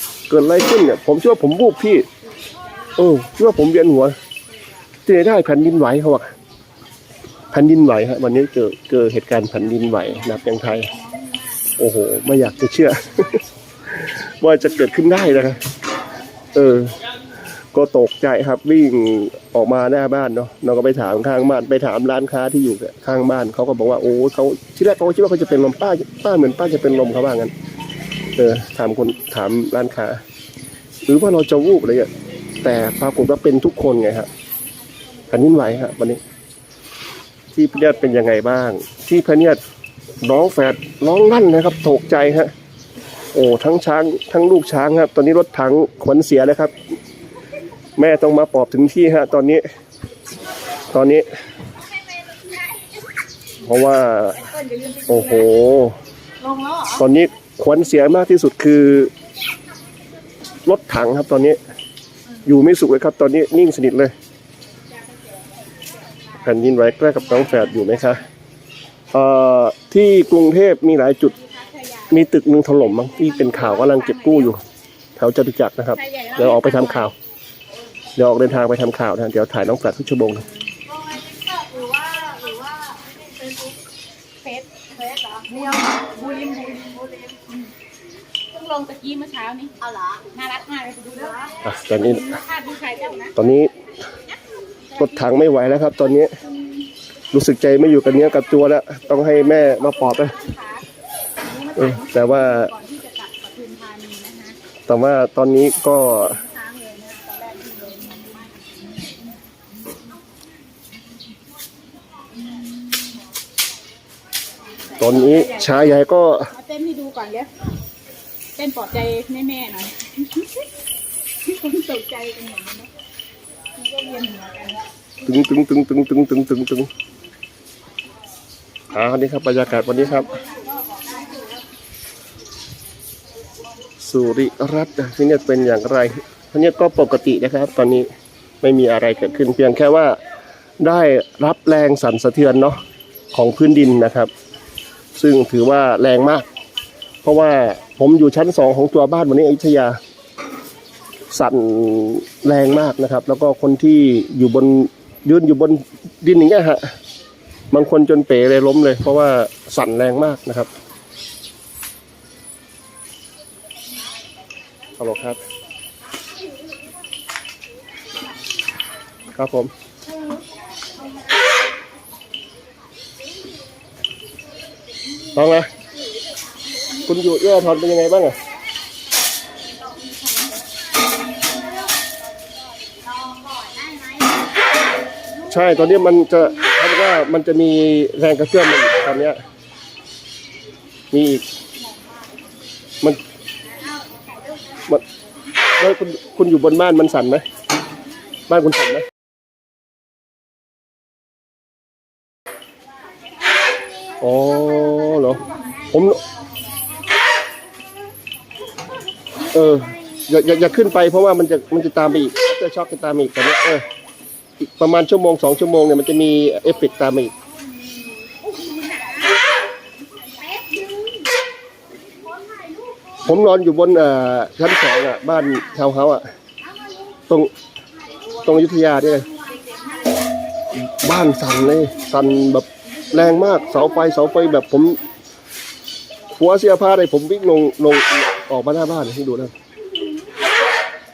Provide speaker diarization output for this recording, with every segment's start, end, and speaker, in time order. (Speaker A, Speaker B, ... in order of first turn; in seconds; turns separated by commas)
Speaker A: 0.3-2.1, Speaker B: 2.2-4.8, Speaker A: 2.9-4.2, Speaker A: 5.0-6.3, Speaker A: 7.5-10.9, Speaker B: 9.8-11.8, Speaker A: 11.8-13.4, Speaker A: 14.0-15.6, Speaker A: 16.5-17.0, Speaker A: 17.7-27.5, Speaker A: 28.4-30.2, Speaker A: 31.1-32.1, Speaker A: 32.6-34.3, Speaker B: 35.0-36.2, Speaker A: 35.3-36.2, Speaker A: 37.5-39.6, Speaker A: 40.2-42.5, Speaker A: 43.3-46.7, Speaker A: 48.0-49.6, Speaker A: 50.9-51.3, Speaker B: 51.8-53.0, Speaker A: 53.6-54.5, Speaker B: 54.3-55.6, Speaker A: 55.1-56.0, Speaker B: 56.4-57.1, Speaker A: 57.0-59.1, Speaker A: 60.6-61.6, Speaker A: 62.4-64.1, Speaker B: 64.8-68.2, Speaker A: 66.4-68.2, Speaker A: 69.1-71.3, Speaker B: 71.2-74.5, Speaker A: 72.1-74.6, Speaker A: 75.2-77.1, Speaker B: 75.9-77.1, Speaker A: 78.2-80.4, Speaker C: 80.8-83.8, Speaker B: 84.4-84.8, Speaker C: 84.9-87.4, Speaker B: 85.5-86.9, Speaker B: 88.5-89.7, Speaker C: 89.8-90.2, Speaker B: 90.3-93.4, Speaker C: 91.2-91.5, Speaker A: 91.6-92.3, Speaker A: 93.3-93.7, Speaker B: 94.9-95.5, Speaker A: 95.0-96.3, Speaker A: 97.3-100.3, Speaker B: 99.1-100.8, Speaker B: 101.4-104.6, Speaker A: 101.8-102.7, Speaker A: 104.9-106.4, Speaker B: 105.5-109.4, Speaker B: 112.2-113.2, Speaker B: 114.8-116.0, Speaker A: 115.0-116.5, Speaker B: 116.5-117.7, Speaker B: 118.5-120.7, Speaker B: 121.4-122.9, Speaker B: 123.7-124.8, Speaker A: 125.2-126.9, Speaker A: 128.9-130.3, Speaker B: 129.8-131.7, Speaker A: 134.0-138.1, Speaker A: 138.6-140.2, Speaker A: 140.8-142.8, Speaker A: 143.3-144.3, Speaker A: 145.2-146.4, Speaker A: 147.2-150.0, Speaker A: 151.3-156.8, Speaker A: 157.7-160.7, Speaker A: 165.0-165.4, Speaker A: 169.3-169.7, Speaker B: 170.5-171.4, Speaker B: 175.3-175.7, Speaker A: 175.3-175.7, Speaker B: 176.7-178.3, Speaker A: 177.0-178.4, Speaker B: 179.6-180.8, Speaker B: 181.4-182.1, Speaker B: 182.8-184.6, Speaker B: 185.4-186.2, Speaker A: 185.5-189.4, Speaker A: 191.1-191.4, Speaker B: 191.7-192.4, Speaker B: 193.5-195.2, Speaker A: 195.8-197.4, Speaker A: 198.5-199.0, Speaker B: 203.3-206.9, Speaker A: 204.2-206.2, Speaker B: 209.4-210.2, Speaker A: 209.5-213.9, Speaker A: 214.6-217.3, Speaker B: 217.3-221.3, Speaker C: 222.3-223.1, Speaker A: 223.2-226.3, Speaker B: 225.3-225.8, Speaker B: 226.8-227.1, Speaker A: 228.4-229.3, Speaker B: 229.3-230.2, Speaker A: 230.8-235.0, Speaker A: 236.4-239.5